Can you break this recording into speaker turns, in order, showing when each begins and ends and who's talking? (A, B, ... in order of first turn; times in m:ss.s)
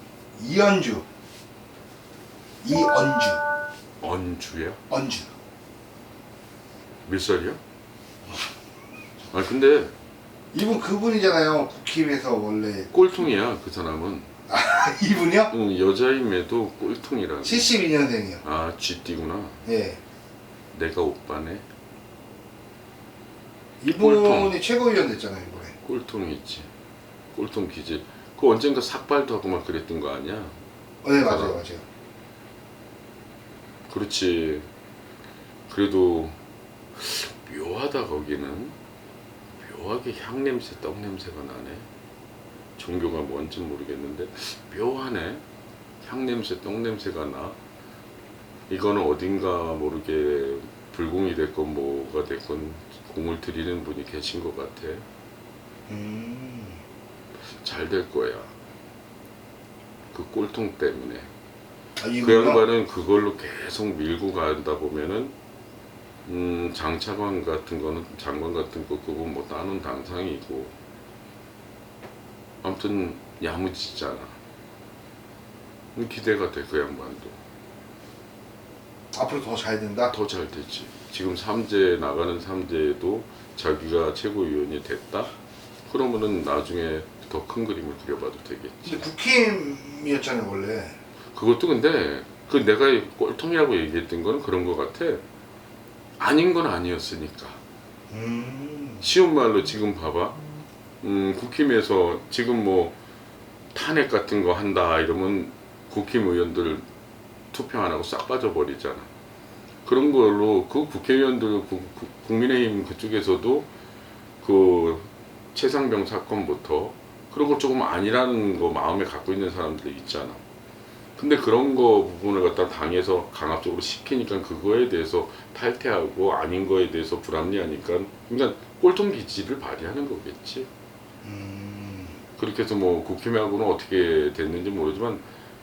0:00.3-0:01.0 A
0:02.6-0:03.4 A
0:04.0-0:04.8 B
0:04.9-0:05.3 A
0:07.0-0:07.6 B
0:09.3-0:09.9 B
0:10.5-0:12.9 A
0:12.9-0:14.3 B
0:14.5-0:15.5 A
0:15.5-0:17.7 B
0:17.4-0:18.4 A
0:18.4-0:19.6 B
0:19.6-0:20.0 A
0:20.7-0:21.6 B
0:23.8-0:25.7 A
0:23.9-0:24.6 B
0:25.8-0:26.7 B
0:27.3-0:30.6 B
0:31.0-0:31.8 A
0:31.2-0:31.6 B
0:33.9-0:34.7 B
0:35.7-0:36.4 B
0:37.0-0:38.8 B
0:39.6-0:41.9 B
0:42.8-0:45.4 B
0:46.0-0:47.6 B
0:48.7-0:55.0 B
0:55.9-0:56.8 A
0:57.5-0:58.5 B
1:00.1-1:01.3 B
1:02.0-1:02.6 A
1:02.2-1:05.3 B
1:06.2-1:10.7 B
1:12.6-1:14.4 B
1:15.9-1:17.4 B
1:19.1-1:20.1 A
1:20.1-1:25.3 B
1:25.9-1:29.1 B
1:28.8-1:31.0 A
1:31.3-1:35.2 B
1:36.2-1:37.6 B
1:38.1-1:39.1 A
1:39.0-1:40.4 B
1:41.0-1:43.0 B
1:43.7-1:46.8 B
1:47.5-1:49.1 B
1:49.8-1:53.7 B
1:54.4-2:00.4 B
2:01.2-2:10.7 B
2:11.2-2:12.2 A
2:12.4-2:15.2 B